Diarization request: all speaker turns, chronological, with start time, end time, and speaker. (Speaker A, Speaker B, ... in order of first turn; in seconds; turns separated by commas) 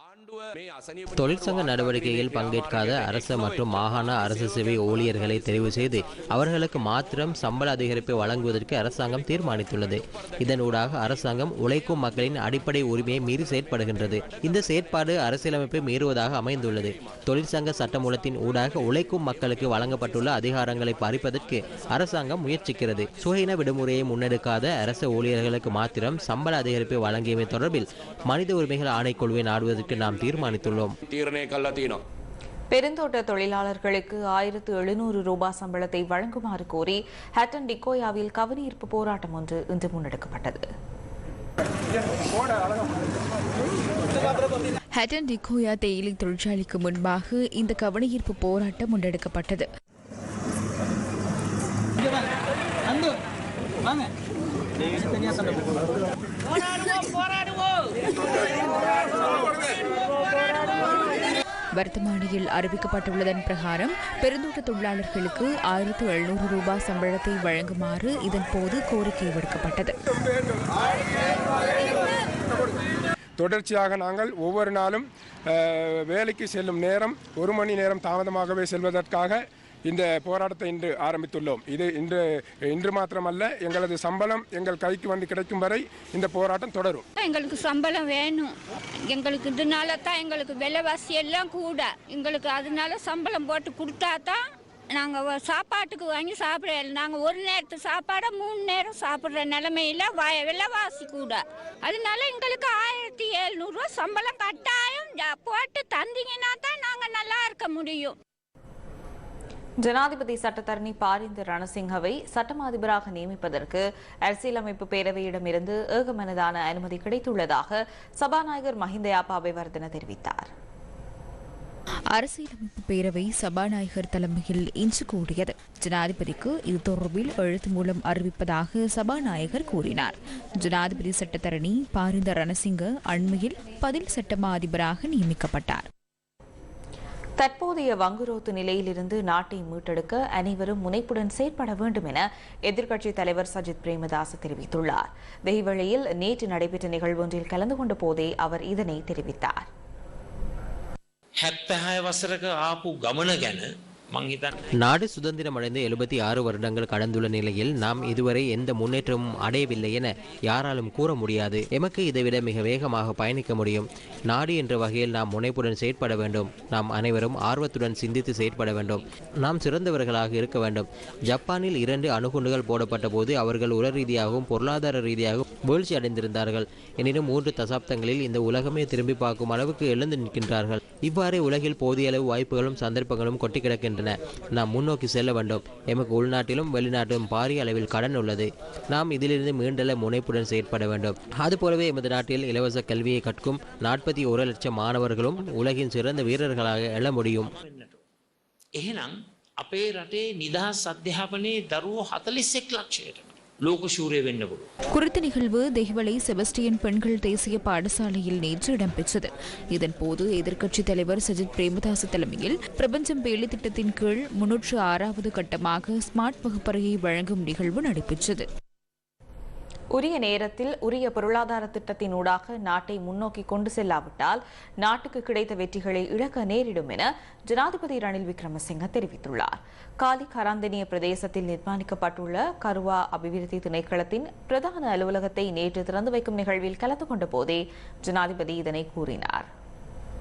Speaker A: 1.1-31.0, Speaker B: 32.7-40.6, Speaker C: 42.3-42.8, Speaker D: 44.9-49.7, Speaker D: 61.8-69.9, Speaker C: 73.4-75.0, Speaker C: 75.6-87.0, Speaker E: 87.2-88.5, Speaker E: 89.1-94.4, Speaker E: 94.9-108.2, Speaker B: 109.8-120.5, Speaker D: 122.2-135.9, Speaker B: 137.4-149.7, Speaker F: 151.5-154.4, Speaker A: 154.7-197.5, Speaker F: 198.8-199.1, Speaker F: 199.7-204.6, Speaker D: 204.9-218.4, Speaker B: 219.9-239.5